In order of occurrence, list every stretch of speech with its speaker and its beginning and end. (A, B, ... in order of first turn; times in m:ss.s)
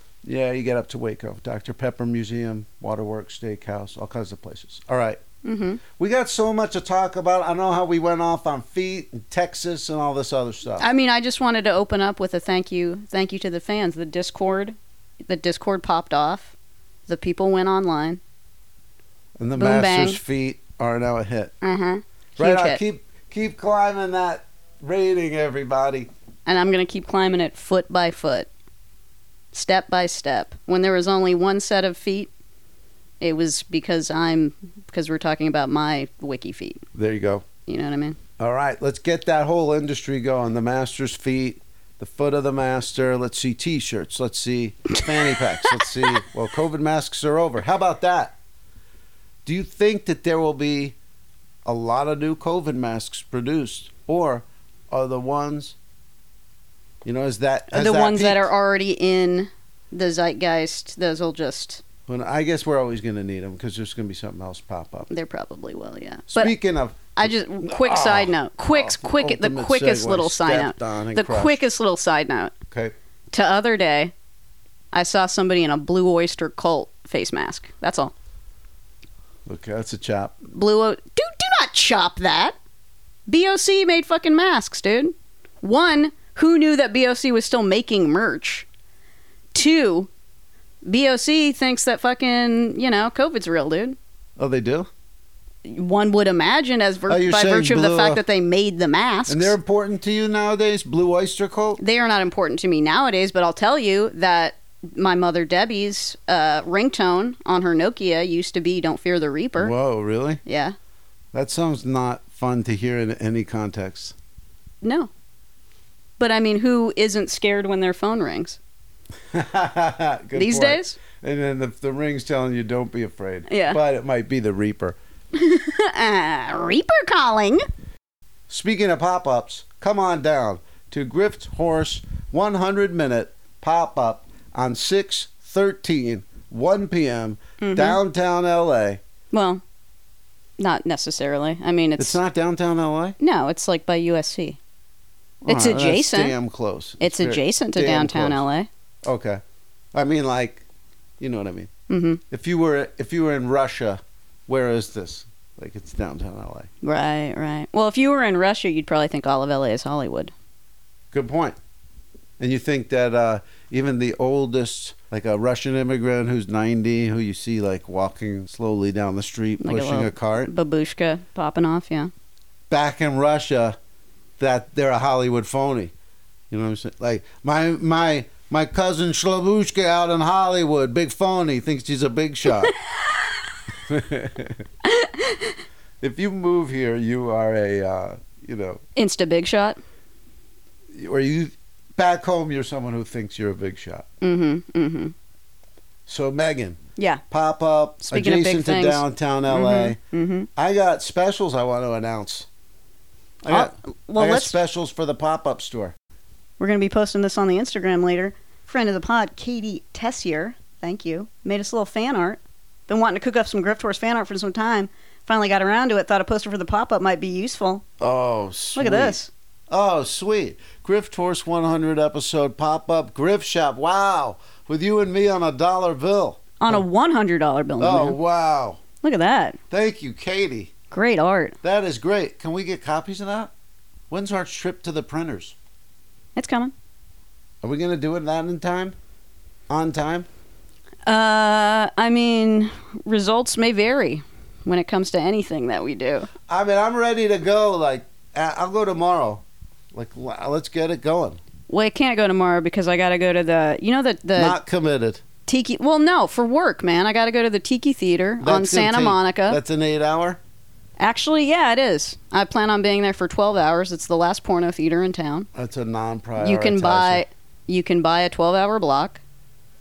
0:00.2-0:05.2 A
0:05.4-0:05.8 B
0:05.9-0:10.8 A
0:10.8-0:16.5 B
0:17.1-0:18.2 B
0:19.4-0:21.5 A
0:19.6-0:20.2 B
0:21.6-0:22.8 B
0:22.4-0:26.1 A
0:26.5-0:28.5 B
0:29.5-0:32.3 B
0:33.2-0:36.8 B
0:36.9-0:37.5 A
0:37.7-0:38.2 B
0:38.4-0:48.4 A
0:45.6-0:45.9 B
0:49.4-0:51.0 A
0:51.6-0:55.8 A
0:57.0-0:58.5 A
0:57.7-1:01.8 B
1:02.1-1:05.1 A
1:05.1-1:06.5 B
1:06.3-1:11.6 A
1:07.1-1:12.5 B
1:13.3-1:14.1 B
1:14.9-1:18.1 B
1:19.5-1:20.4 A
1:20.5-1:22.6 B
1:23.3-1:28.7 B
1:29.5-1:30.1 B
1:30.8-1:34.0 B
1:34.4-1:34.9 A
1:35.6-1:39.6 B
1:37.1-1:38.2 A
1:39.3-1:41.8 A
1:41.8-1:49.7 B
1:49.6-1:50.4 A
1:50.4-1:50.8 B
1:51.3-1:54.2 A
1:54.8-1:55.1 B
1:56.2-1:58.6 B
1:59.3-2:05.0 A
2:00.4-2:01.0 B
2:03.5-2:03.8 B
2:05.4-2:07.6 B
2:08.5-2:19.0 A
2:17.6-2:18.0 B
2:19.3-2:19.6 B
2:20.6-2:22.2 B
2:22.0-2:23.2 A
2:23.2-2:24.6 B
2:25.4-2:28.4 A
2:25.5-2:26.4 B
2:27.0-2:28.7 B
2:29.0-2:29.4 A
2:29.9-2:30.6 A
2:31.2-2:31.7 A
2:31.9-2:32.2 B
2:32.3-2:36.7 A
2:36.8-2:40.3 B
2:41.1-2:41.6 A
2:42.4-2:50.5 A
2:49.6-2:52.1 B
2:52.7-2:53.8 A
2:54.4-2:55.9 A
2:56.5-3:02.7 A
3:03.8-3:04.6 A
3:04.8-3:05.6 B
3:06.0-3:08.8 A
3:09.0-3:09.8 B
3:10.9-3:14.1 A
3:14.2-3:15.2 B
3:16.1-3:16.8 A
3:17.0-3:17.2 B
3:17.3-3:20.0 A
3:18.0-3:20.5 B
3:20.6-3:22.5 A
3:23.4-3:26.0 A
3:23.5-3:24.6 B
3:26.6-3:37.8 B
3:38.0-3:39.2 A
3:38.8-3:39.3 B
3:39.7-3:46.8 A
3:46.6-3:48.2 B
3:47.8-3:48.8 A
3:49.0-3:49.6 B
3:49.7-3:50.7 A
3:50.9-3:51.6 B
3:51.6-3:53.5 A
3:54.1-3:55.6 A
3:56.4-3:56.7 B
3:57.6-3:59.0 A
3:59.7-4:00.3 A
4:01.1-4:06.3 B
4:06.5-4:11.4 A
4:11.7-4:14.6 B
4:14.4-4:15.2 A
4:15.5-4:19.6 B
4:18.4-4:20.4 A
4:21.0-4:25.5 B
4:25.5-4:27.2 A
4:26.4-4:29.2 B